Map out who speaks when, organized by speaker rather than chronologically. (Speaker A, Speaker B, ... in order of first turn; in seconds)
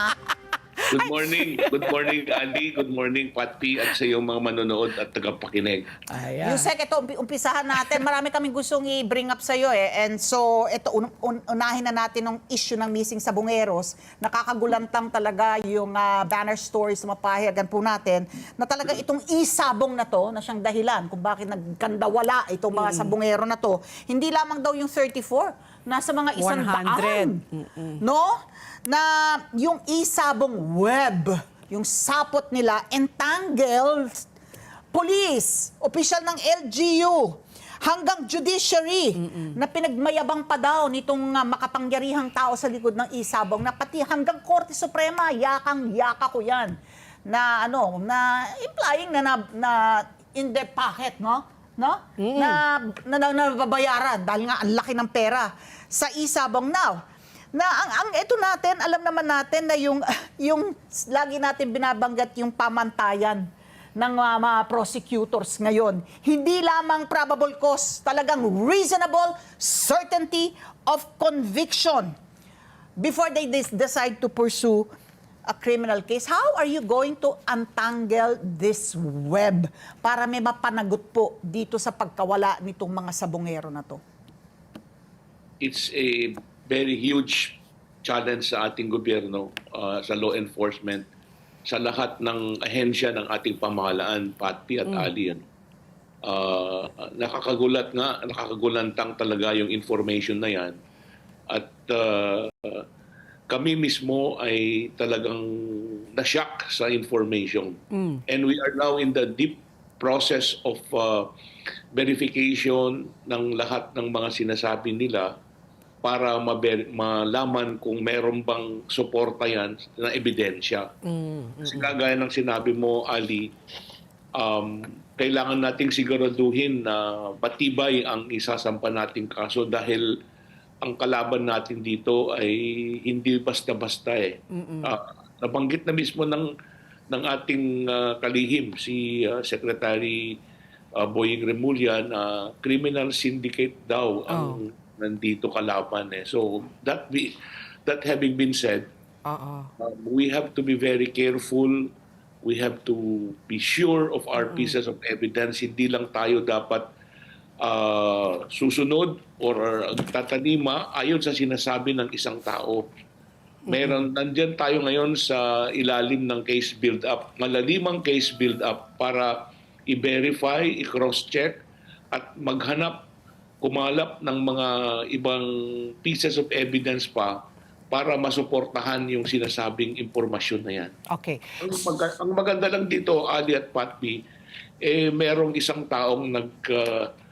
Speaker A: 0.9-2.6, 6.1-6.7, 22.7-23.1, 26.4-28.0, 39.2-39.6, 52.2-52.6, 94.8-95.1, 107.9-108.2, 121.0-122.0, 134.5-134.9, 144.3-144.6, 149.2-149.7, 154.3-154.8, 163.7-164.1, 181.1-181.8
Speaker B: 0.9-5.9, 85.6-91.1, 91.7-95.4, 96.2-100.8, 101.5-102.8, 103.5-107.8, 108.3-111.3, 111.9-115.3, 116.0-120.9, 121.6-123.5, 124.4-130.1, 130.8-136.5, 137.1-140.4, 141.0-147.3, 147.8-148.9, 149.8-151.9, 152.4-156.9, 157.6-162.8, 163.7-171.6, 172.1-173.0, 173.6-177.3, 177.9-180.9, 181.6-184.2, 184.8-187.1
Speaker C: 6.4-27.4, 28.0-28.3, 28.9-34.3, 34.9-46.7, 47.3-57.0, 57.5-63.5, 64.0-72.1, 73.0-74.9, 75.5-84.0